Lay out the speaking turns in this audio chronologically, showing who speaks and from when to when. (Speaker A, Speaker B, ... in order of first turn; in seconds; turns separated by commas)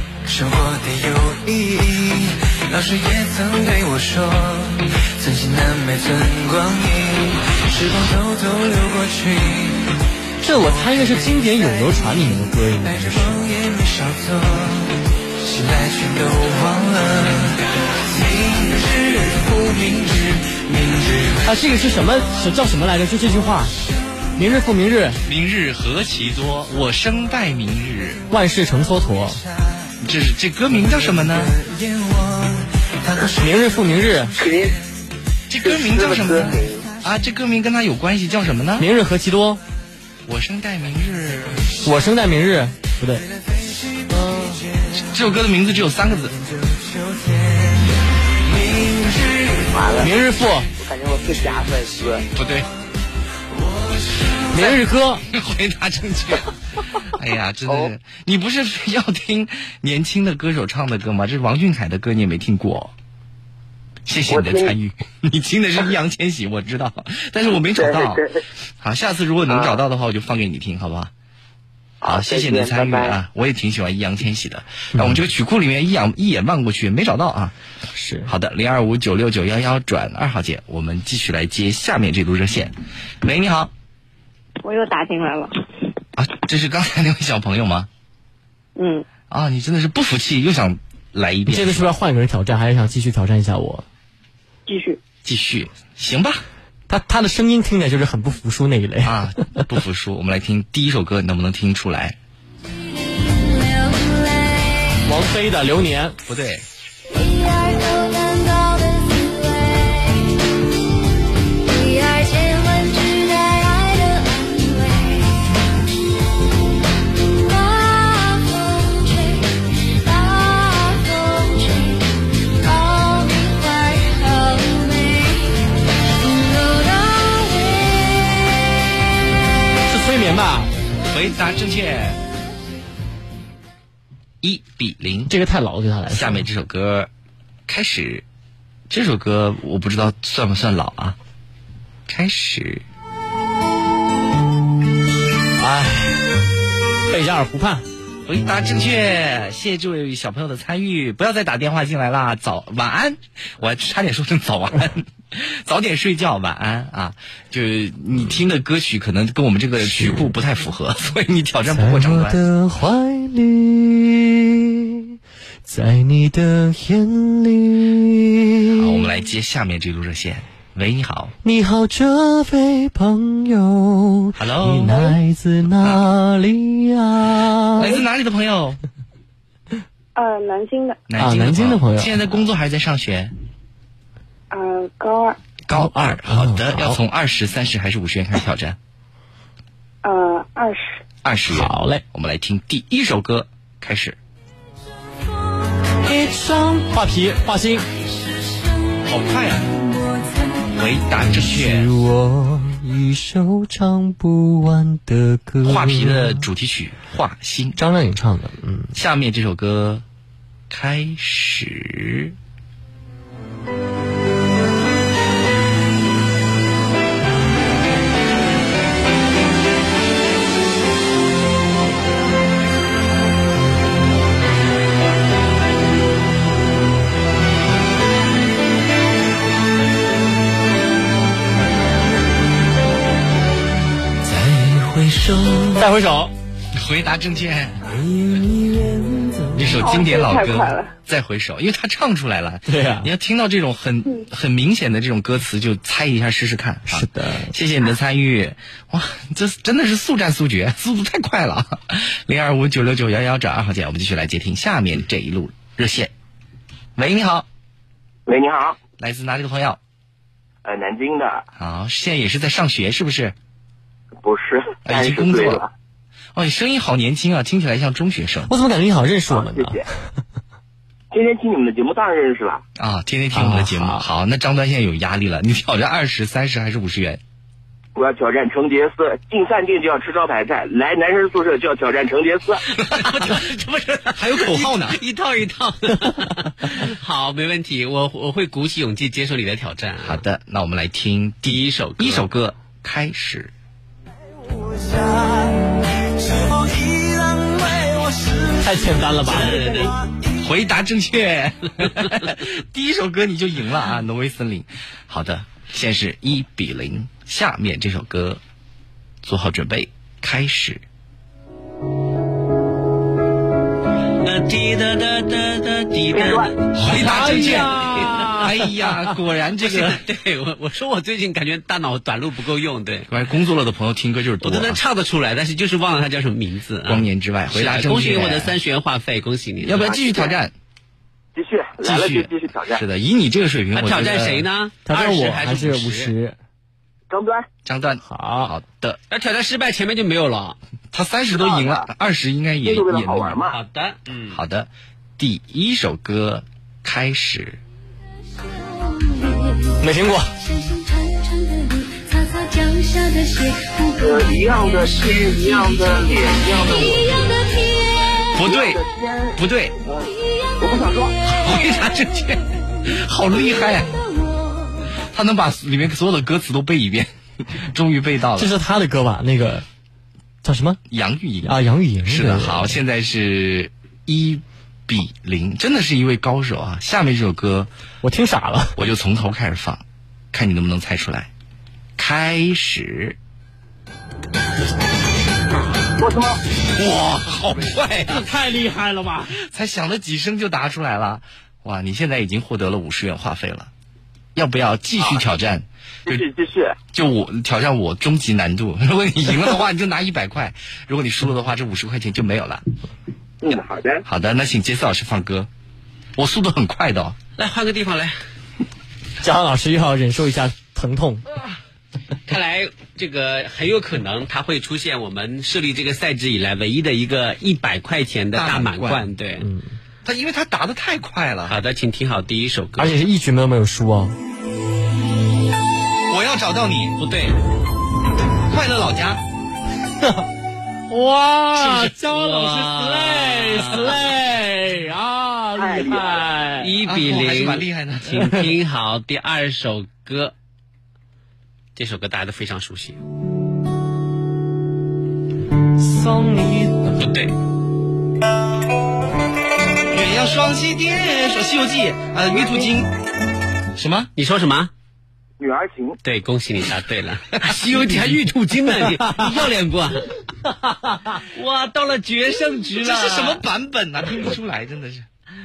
Speaker A: 0.2-12.0, Speaker B: 10.4-13.4, Speaker A: 12.8-21.5, Speaker B: 21.4-23.7, Speaker B: 24.4-25.2, Speaker C: 25.2-28.2, Speaker B: 28.3-29.4, Speaker C: 30.0-31.5, Speaker A: 30.7-34.7, Speaker B: 33.4-34.3, Speaker D: 34.4-34.7, Speaker C: 35.5-38.9, Speaker D: 35.6-36.9, Speaker B: 38.8-39.6, Speaker C: 40.3-41.9, Speaker B: 41.8-43.2, Speaker A: 43.4-45.1, Speaker C: 45.0-46.4, Speaker A: 46.3-49.8, Speaker D: 49.7-50.1, Speaker B: 50.0-50.7, Speaker D: 50.8-52.3, Speaker C: 52.3-52.7, Speaker A: 53.5-54.7, Speaker B: 54.5-55.2, Speaker C: 54.6-56.5, Speaker C: 57.1-62.9, Speaker C: 64.0-68.2, Speaker D: 64.3-64.7, Speaker D: 67.6-68.3, Speaker C: 68.8-71.1, Speaker D: 69.5-69.8, Speaker D: 72.0-73.2, Speaker C: 72.0-77.5, Speaker B: 74.9-75.2, Speaker B: 77.9-78.3, Speaker C: 78.3-83.7, Speaker E: 84.6-85.6, Speaker C: 86.2-87.9, Speaker E: 88.8-89.0, Speaker C: 89.3-91.9, Speaker B: 91.5-93.8, Speaker E: 94.7-95.0, Speaker C: 95.2-96.4, Speaker B: 96.9-99.2, Speaker C: 99.0-102.2, Speaker F: 102.9-105.0, Speaker B: 105.0-106.2, Speaker C: 106.2-106.6, Speaker F: 107.1-110.4, Speaker F: 111.6-115.5, Speaker F: 117.2-125.6, Speaker F: 126.2-128.5, Speaker B: 129.9-130.7, Speaker C: 131.1-132.2, Speaker C: 134.4-135.3, Speaker B: 135.3-136.4, Speaker C: 136.1-137.1, Speaker C: 137.7-138.2, Speaker C: 138.9-141.2, Speaker C: 142.1-142.8, Speaker B: 145.6-146.2, Speaker B: 147.1-147.8, Speaker C: 148.2-162.4, Speaker B: 159.8-160.3, Speaker B: 161.7-165.1, Speaker B: 165.7-169.0, Speaker C: 168.7-171.3, Speaker B: 171.4-178.0, Speaker C: 174.4-175.2, Speaker C: 177.8-178.8, Speaker G: 180.2-180.9, Speaker E: 180.2-180.9, Speaker C: 181.1-183.3, Speaker B: 181.2-182.2, Speaker G: 184.5-185.2, Speaker E: 184.6-185.3, Speaker C: 185.7-188.8, Speaker B: 185.7-187.0, Speaker G: 190.0-190.8, Speaker C: 191.2-194.2, Speaker B: 191.5-192.0, Speaker B: 196.0-197.8, Speaker F: 198.9-200.7, Speaker C: 199.1-199.7, Speaker C: 200.7-201.9, Speaker B: 201.3-206.4, Speaker C: 205.6-207.8, Speaker B: 207.8-208.9, Speaker C: 208.9-210.0, Speaker C: 210.7-212.3, Speaker B: 235.7-236.3, Speaker C: 236.7-237.9, Speaker C: 239.6-256.1, Speaker E: 240.0-240.9, Speaker B: 242.7-243.1, Speaker B: 246.9-247.5, Speaker C: 256.9-257.4, Speaker H: 258.3-258.8, Speaker C: 259.0-259.8, Speaker H: 260.6-261.4, Speaker C: 261.6-263.3, Speaker H: 264.2-265.7, Speaker C: 264.8-265.6, Speaker C: 266.3-268.5, Speaker B: 268.5-269.8, Speaker H: 269.3-269.9, Speaker H: 271.1-272.6, Speaker C: 272.8-277.2, Speaker B: 273.3-274.0, Speaker H: 277.9-282.6, Speaker I: 282.8-290.2, Speaker C: 282.9-283.4, Speaker C: 284.1-285.0, Speaker C: 290.0-293.5, Speaker I: 291.4-292.4, Speaker B: 298.6-299.6, Speaker I: 299.2-300.0, Speaker C: 300.4-308.4, Speaker C: 309.2-310.8, Speaker I: 314.2-317.6, Speaker H: 316.1-316.4, Speaker C: 316.7-320.0, Speaker B: 317.0-318.4, Speaker I: 319.6-323.1, Speaker C: 323.1-324.8, Speaker I: 324.4-330.0, Speaker C: 326.9-328.5, Speaker C: 329.6-330.5, Speaker H: 329.9-330.3, Speaker H: 331.3-332.8, Speaker C: 331.8-334.5, Speaker I: 333.7-336.1, Speaker B: 334.9-336.4, Speaker H: 337.1-337.4, Speaker C: 337.6-339.0, Speaker B: 338.0-338.5, Speaker I: 339.1-340.6, Speaker C: 340.9-343.4, Speaker H: 341.3-341.9, Speaker H: 342.6-343.6, Speaker I: 343.5-344.4, Speaker C: 344.3-347.6, Speaker F: 348.5-349.8, Speaker B: 349.8-350.3, Speaker F: 350.4-358.2, Speaker H: 354.0-357.3, Speaker C: 358.3-358.8, Speaker H: 358.4-359.3, Speaker C: 359.4-359.8, Speaker H: 360.6-361.1, Speaker C: 361.2-363.9, Speaker C: 365.1-368.5, Speaker B: 368.4-369.6, Speaker B: 370.4-370.8, Speaker C: 370.9-377.7, Speaker B: 371.4-372.8, Speaker B: 378.0-378.8, Speaker C: 378.8-381.3, Speaker C: 382.0-383.2, Speaker H: 386.0-386.4, Speaker C: 386.7-388.3, Speaker B: 388.3-389.3, Speaker C: 389.3-393.7, Speaker C: 394.3-396.2, Speaker H: 396.1-396.8, Speaker C: 396.9-402.6, Speaker H: 403.4-404.0, Speaker C: 404.0-405.5, Speaker C: 406.1-407.2, Speaker I: 407.4-408.1, Speaker B: 409.2-411.2, Speaker I: 412.3-419.4, Speaker C: 418.3-419.0, Speaker B: 419.4-419.7, Speaker C: 420.0-421.6, Speaker I: 421.5-423.0, Speaker B: 422.8-424.1, Speaker C: 426.1-427.0, Speaker I: 427.0-427.3, Speaker C: 428.5-429.2, Speaker B: 430.9-436.7, Speaker I: 431.5-434.0, Speaker H: 435.6-436.2, Speaker I: 436.6-440.3, Speaker C: 436.8-438.2, Speaker I: 441.8-443.0, Speaker B: 445.8-446.9, Speaker I: 447.0-447.3, Speaker C: 449.9-452.9, Speaker C: 453.8-454.1, Speaker I: 454.1-454.7, Speaker H: 455.4-456.0, Speaker I: 456.0-460.1, Speaker C: 457.4-458.2, Speaker I: 461.2-463.4, Speaker C: 462.8-465.1